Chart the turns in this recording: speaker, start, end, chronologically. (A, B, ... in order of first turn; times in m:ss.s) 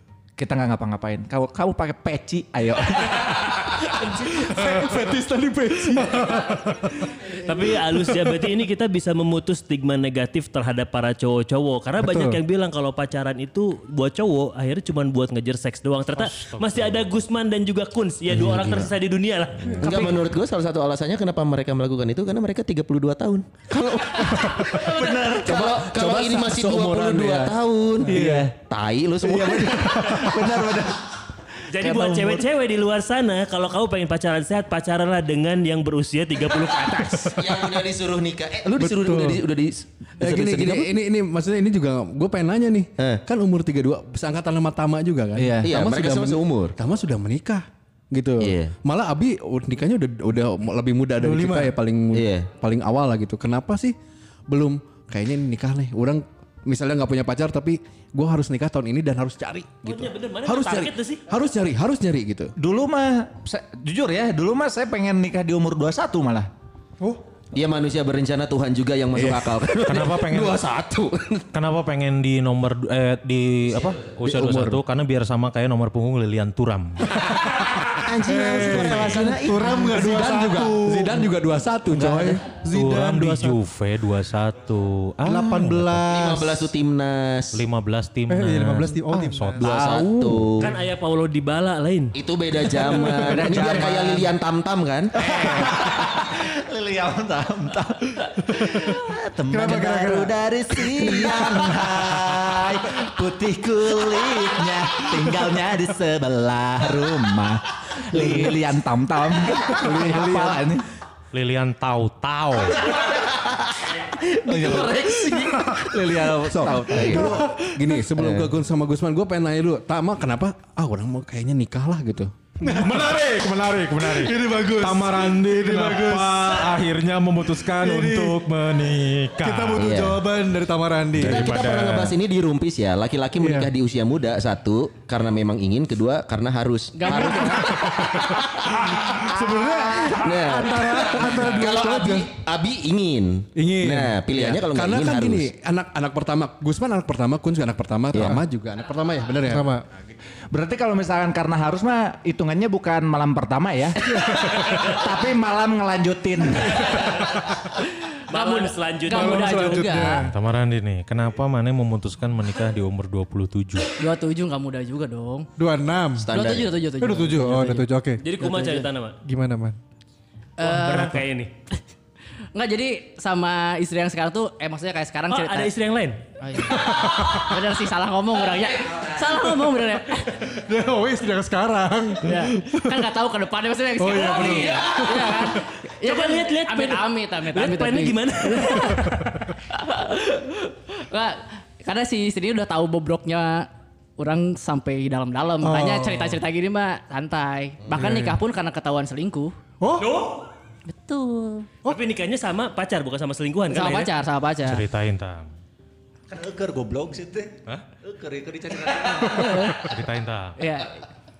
0:00.4-0:04.9 A
0:04.0-0:08.4 B
0:07.3-0:20.2 C
0:12.0-0:12.4 B
0:16.2-0:17.1 D
0:18.3-0:18.9 E
0:19.8-0:30.0 E
0:24.7-0:25.8 A
0:25.2-0:27.6 F
0:28.1-0:28.5 B
0:28.1-0:28.5 A
0:29.2-0:31.1 A
0:29.9-0:30.5 B
0:31.7-0:37.4 C
0:31.8-0:32.4 A
0:37.4-0:40.9 E
0:38.8-0:39.4 B
0:40.2-0:53.9 F
0:45.4-0:45.7 A
0:45.6-0:46.7 E
0:48.4-0:48.7 E
0:51.2-0:51.8 B
0:52.1-0:52.5 E
0:54.5-1:02.5 F
0:59.8-1:01.2 C
1:02.6-1:06.5 A
1:07.5-1:11.5 E
1:09.2-1:09.6 F
1:09.8-1:10.6 D
1:11.5-1:17.2 D
1:14.2-1:14.8 F
1:17.2-1:21.3 B
1:17.9-1:20.2 E
1:19.8-1:22.5 F
1:21.9-1:23.6 B
1:22.7-1:26.7 D
1:25.3-1:26.3 B
1:26.1-1:27.6 E
1:27.6-1:30.4 D
1:28.3-1:29.7 B
1:29.6-1:30.7 E
1:30.6-1:32.1 C
1:32.1-1:35.1 E
1:32.8-1:34.3 A
1:35.2-1:50.9 A
1:35.3-1:35.7 B
1:38.6-1:39.0 B
1:39.5-1:42.4 B
1:49.7-1:50.6 F
1:51.3-1:52.9 D
1:52.8-1:53.2 A
1:53.9-1:57.4 A
1:54.5-1:55.4 E
1:55.4-1:55.9 B
1:56.5-2:02.5 F
1:56.9-1:57.3 E
1:57.1-1:58.0 B
1:58.2-1:58.5 E
2:02.6-2:03.4 B
2:02.6-2:09.9 D
2:04.0-2:06.8 B
2:07.7-2:08.5 B
2:09.4-2:11.5 B
2:09.8-2:10.2 E
2:11.2-2:12.1 D
2:11.2-2:18.7 E
2:13.4-2:13.7 B
2:17.0-2:17.8 G
2:17.1-2:22.3 B
2:20.1-2:25.5 E
2:23.6-2:24.1 B
2:24.2-2:29.7 F
2:28.1-2:28.4 E
2:29.5-2:29.8 B
2:30.5-2:37.3 A
2:34.2-2:34.7 B
2:38.1-2:40.3 G
2:38.3-2:39.8 C
2:39.1-2:40.4 B
2:40.3-2:44.0 D
2:44.0-2:45.5 G
2:45.6-2:46.3 B
2:46.2-2:46.7 E
2:46.3-2:47.9 G
2:47.0-2:48.5 B
2:48.2-2:49.2 C
2:48.4-2:48.8 G
2:49.2-2:49.8 B
2:50.6-2:51.2 G
2:50.6-2:51.5 C
2:52.6-2:55.7 G
2:55.3-2:56.2 C
2:56.4-3:00.4 G
2:56.7-2:57.6 B
3:00.4-3:03.1 B
3:02.2-3:09.0 G
3:04.0-3:05.6 B
3:06.0-3:09.3 C
3:09.7-3:19.6 G
3:15.6-3:16.4 B
3:18.0-3:18.4 B
3:19.8-3:20.1 B
3:20.0-3:20.5 C
3:20.9-3:21.7 G
3:21.9-3:24.1 C
3:23.7-3:24.8 G
3:24.6-3:25.5 D
3:26.4-3:27.5 E
3:27.6-3:28.0 D
3:28.1-3:29.1 A
3:29.2-3:29.9 B
3:29.2-3:29.8 G
3:29.5-3:30.6 D
3:30.6-3:31.0 G